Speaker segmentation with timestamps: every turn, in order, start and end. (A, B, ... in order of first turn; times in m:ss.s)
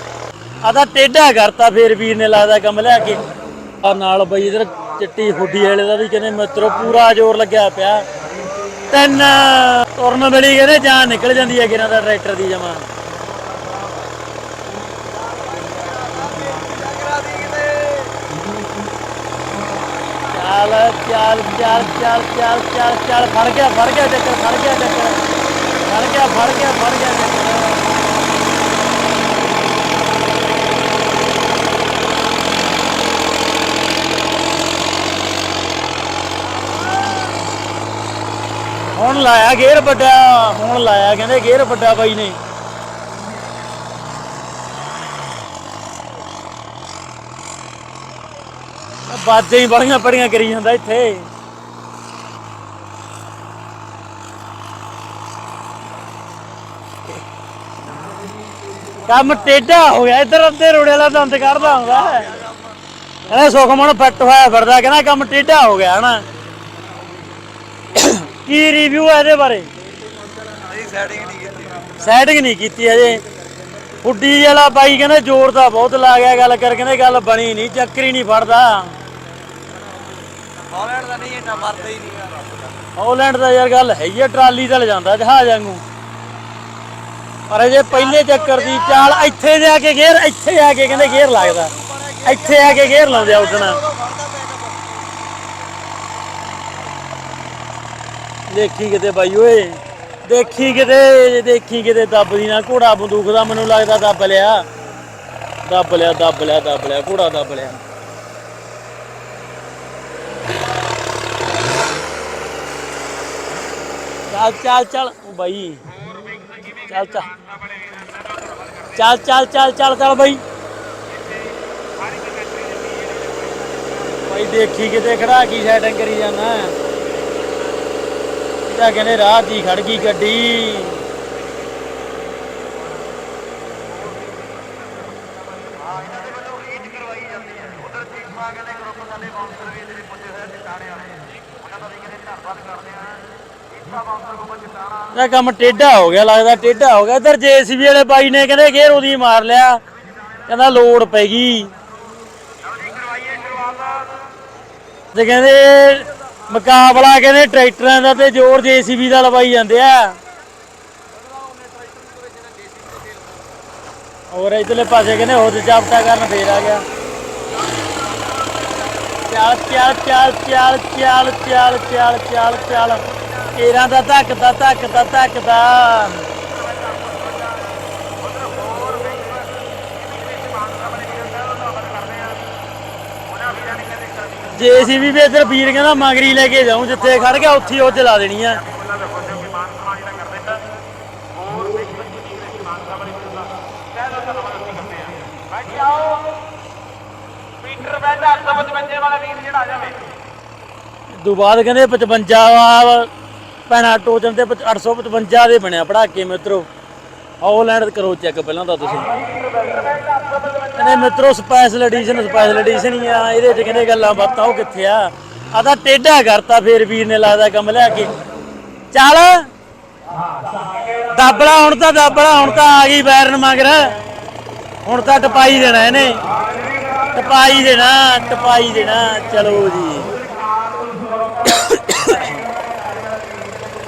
0:00.6-0:03.2 A
0:03.8-0:08.0 A
0:08.9-0:12.9 A
0:15.4-0:18.2 B
0:20.3-0:25.2 A
0:25.8-0:27.8 A
0:39.0-0:42.4 A
0:49.0-0:51.3 A
0:59.0-1:02.4 A
1:01.7-1:02.7 B
1:03.3-1:06.2 A
1:07.9-1:09.7 A
1:10.5-1:11.9 B
1:12.0-1:13.2 A
1:14.0-1:18.9 A
1:20.7-1:22.8 B
1:23.0-1:25.8 A
1:27.5-1:31.7 A
1:28.0-1:29.2 B
1:31.0-1:34.9 B
1:32.2-1:33.8 A
1:38.5-1:44.6 A
1:45.6-1:47.8 A
1:54.3-1:55.8 A
1:56.9-1:57.3 A
1:58.9-2:00.4 A
2:04.1-2:06.7 A
2:08.7-2:11.0 A
2:25.1-2:29.8 A
2:30.5-2:31.7 A
2:35.1-2:40.2 A
2:44.3-2:46.8 A
2:49.3-2:56.2 A
3:04.5-3:08.6 A
3:21.2-3:23.1 A
3:23.7-3:26.7 A
3:27.4-3:29.1 A
3:30.7-3:38.1 A
3:38.9-3:39.5 A
3:41.1-3:43.9 A
3:44.8-3:46.2 A
3:47.1-3:50.1 A
3:51.4-3:52.3 A